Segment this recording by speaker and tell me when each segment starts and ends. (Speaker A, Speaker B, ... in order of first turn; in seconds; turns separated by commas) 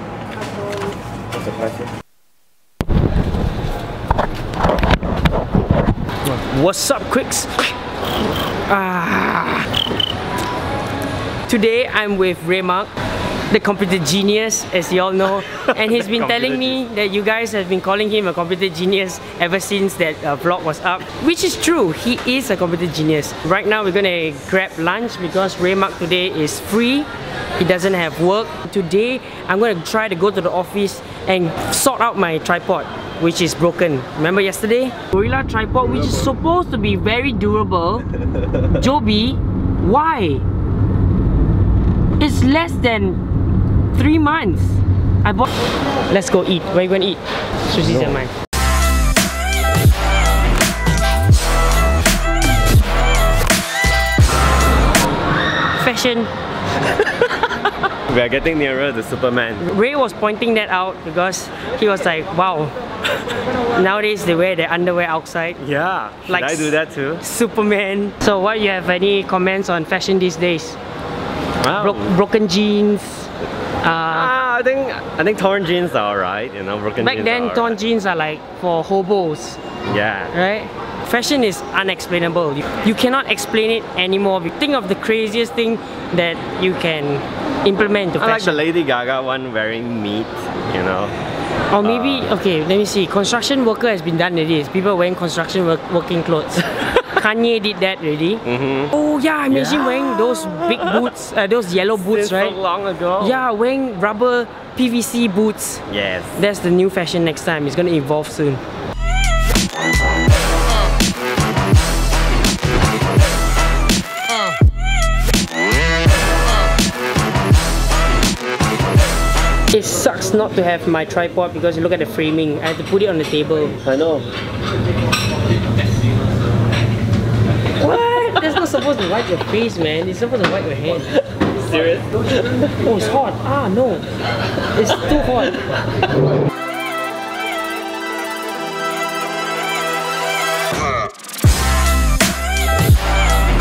Speaker A: 1.4-1.8, Speaker B: 6.2-7.7, Speaker B: 8.7-9.7, Speaker B: 11.4-12.9, Speaker B: 13.5-38.0, Speaker A: 15.9-16.7, Speaker B: 38.6-40.4, Speaker B: 42.2-43.2, Speaker B: 43.9-45.5, Speaker B: 46.1-48.3, Speaker B: 55.8-56.3, Speaker A: 58.1-59.6, Speaker B: 59.6-62.7, Speaker B: 63.7-65.6, Speaker A: 65.6-67.2, Speaker B: 66.3-70.8, Speaker A: 71.6-72.1, Speaker B: 71.8-74.3, Speaker A: 74.1-77.8, Speaker B: 77.0-79.6, Speaker A: 79.9-80.3, Speaker B: 80.3-88.6, Speaker A: 88.2-91.1, Speaker B: 91.7-102.5, Speaker A: 91.8-92.3, Speaker A: 98.4-98.9, Speaker A: 99.5-101.0, Speaker A: 101.9-103.4, Speaker B: 103.2-108.6, Speaker A: 105.9-106.3, Speaker B: 119.7-123.7, Speaker A: 123.8-124.3, Speaker B: 127.8-131.1, Speaker A: 131.6-132.4, Speaker B: 132.8-134.0, Speaker B: 134.7-135.7